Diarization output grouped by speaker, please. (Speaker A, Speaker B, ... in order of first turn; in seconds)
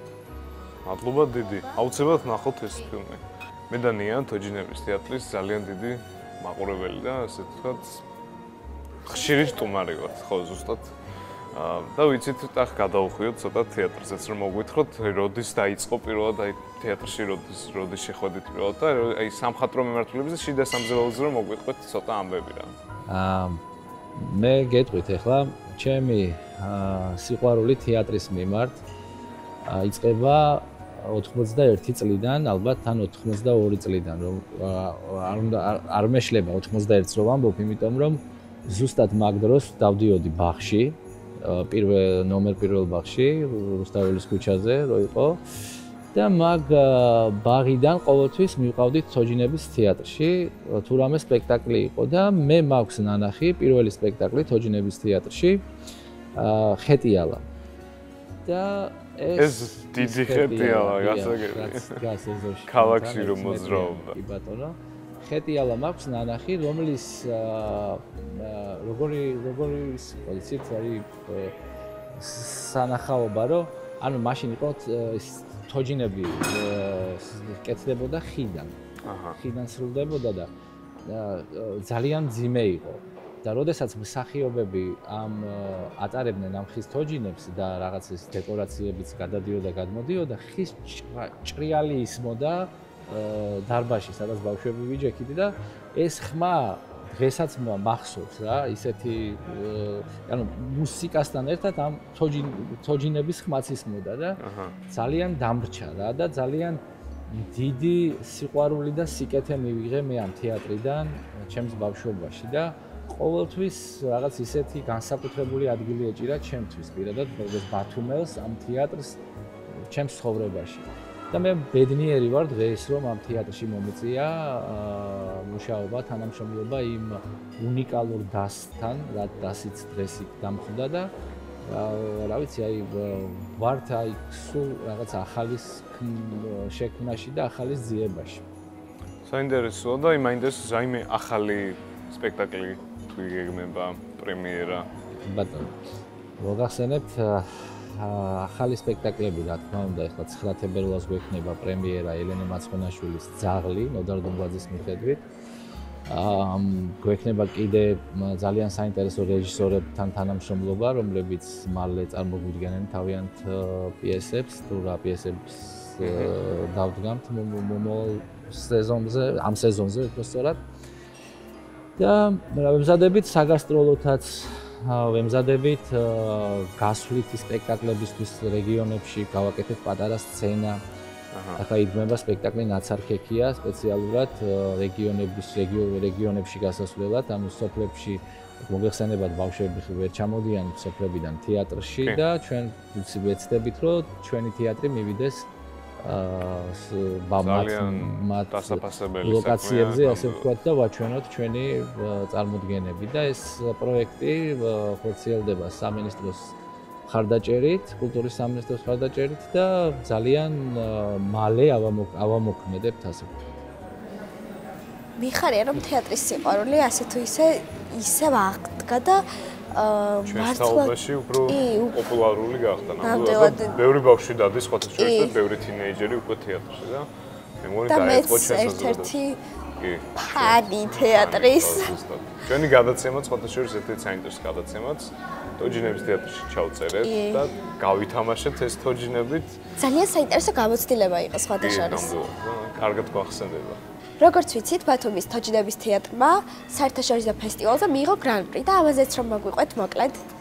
Speaker A: 0.8-8.0, 9.1-10.9, 11.5-22.8, 59.4-62.0, 62.7-64.2, 79.0-79.4, 104.4-104.8, 139.3-144.9, 166.0-166.3, 181.3-181.6, 197.4-200.5, 220.2-227.1, 227.6-229.2, 229.8-239.6, 241.6-243.8
Speaker B: 23.1-23.6, 24.2-28.8, 29.7-45.4, 46.1-55.6, 56.4-57.5, 58.5-71.6, 72.1-78.8, 79.4-80.5, 81.0-119.2, 119.7-131.1, 131.7-138.4, 145.2-145.8, 146.4-155.2, 156.1-170.6, 172.0-180.8, 181.6-195.5, 196.0-206.6, 207.1-213.3
Speaker C: 215.2-221.0, 221.5-222.1, 223.0-223.8, 225.0-225.4, 227.9-229.4, 230.2-231.9, 237.0-237.5, 239.8-242.1, 244.2-250.2